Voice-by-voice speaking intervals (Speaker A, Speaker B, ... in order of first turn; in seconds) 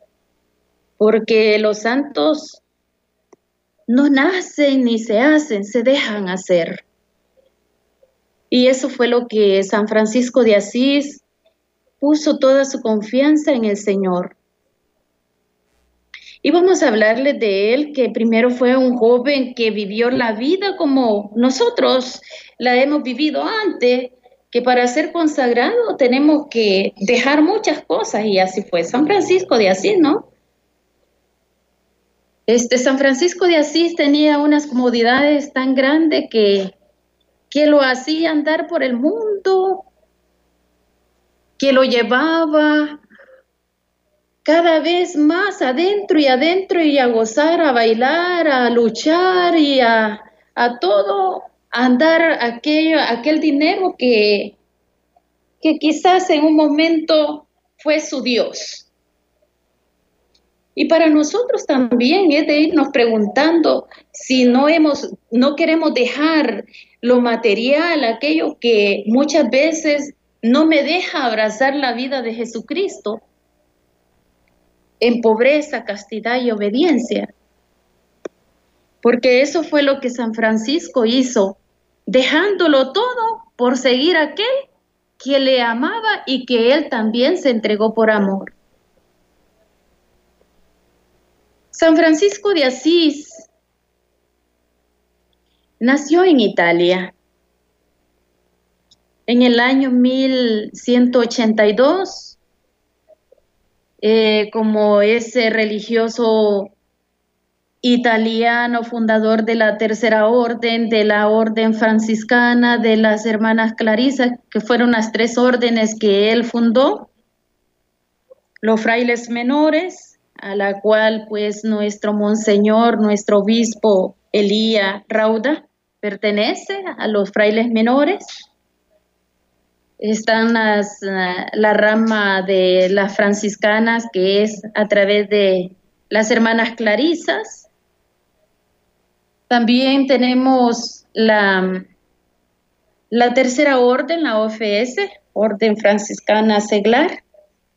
Speaker A: 1.0-2.6, 3.9-6.8, 8.5-11.2, 12.0-14.3, 16.4-30.3, 32.5-36.7, 37.5-39.9, 41.6-43.0, 44.4-54.5, 55.6-58.9, 60.7-73.2, 75.0-77.3, 79.0-84.5, 85.2-88.5, 91.7-93.5, 95.8-97.1, 99.3-102.4, 104.0-106.7, 107.8-117.1, 118.6-128.2, 130.0-137.7, 139.5-141.9, 143.1-147.2